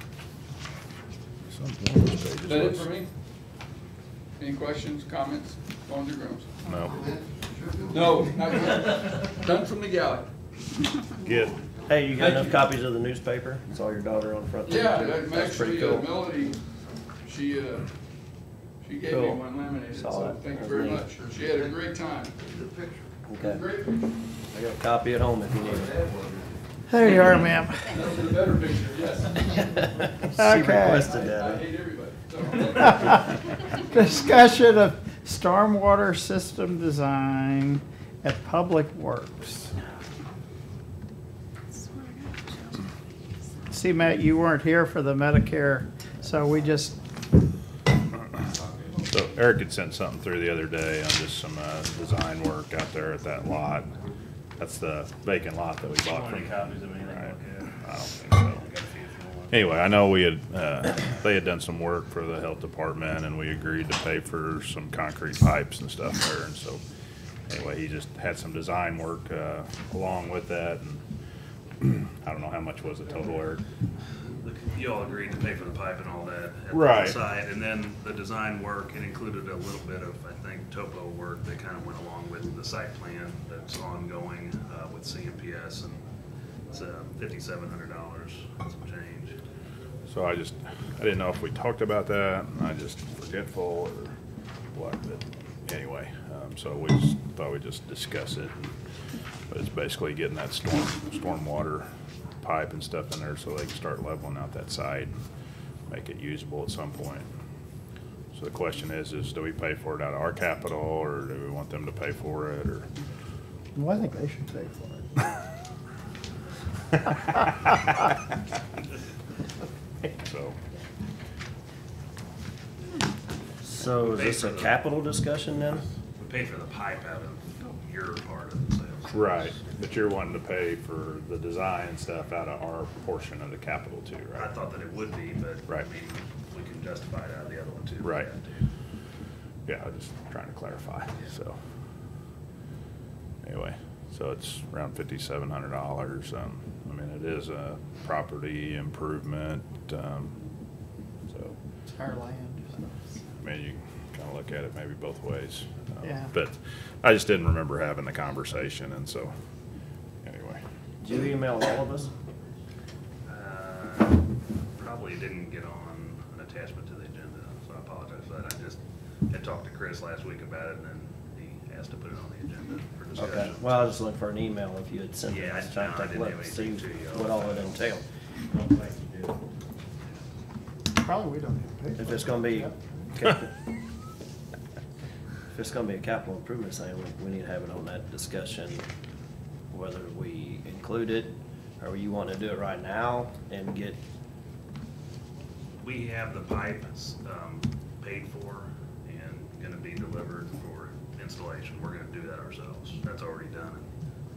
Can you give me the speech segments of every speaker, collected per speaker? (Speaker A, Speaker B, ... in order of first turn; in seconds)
Speaker A: 1.5-2.9, 6.7-7.1, 11.2-11.5, 49.1-53.9, 54.6-58.6, 59.5-66.8, 67.5-71.0, 71.8-73.6, 76.7-77.2, 90.0-94.1, 94.7-98.7, 99.5-101.8, 102.4-105.1, 105.9-107.3, 108.3-112.9, 120.2-120.6, 129.1-134.5, 138.0-138.3, 139.7-141.6, 143.4-150.3, 151.3-151.6, 153.4-159.3, 160.2-160.6
Speaker B: 2.4-3.1, 4.4-6.5, 7.9-10.3, 12.1-12.6, 14.6-16.6, 17.2-17.9, 18.8-22.4, 23.4-24.1, 27.9-30.0, 30.8-33.6
Speaker C: 11.9-16.1, 19.1-19.4, 19.9-21.0, 23.3-23.6, 24.5-26.0, 29.9-31.6, 123.6-125.8, 161.0-162.1, 173.1-178.0, 181.9-183.5, 185.5-188.8, 189.7-194.0
Speaker D: 26.9-27.9, 30.3-31.1, 32.8-39.7, 43.7-47.0, 113.8-115.0, 151.9-152.9, 156.0-156.3, 180.9-183.1
Speaker E: 56.0-59.8, 74.3-86.0, 86.7-89.4, 123.9-124.8, 126.2-129.6, 134.3-138.6, 163.2-164.2, 164.8-173.9, 175.3-177.8, 195.8-203.9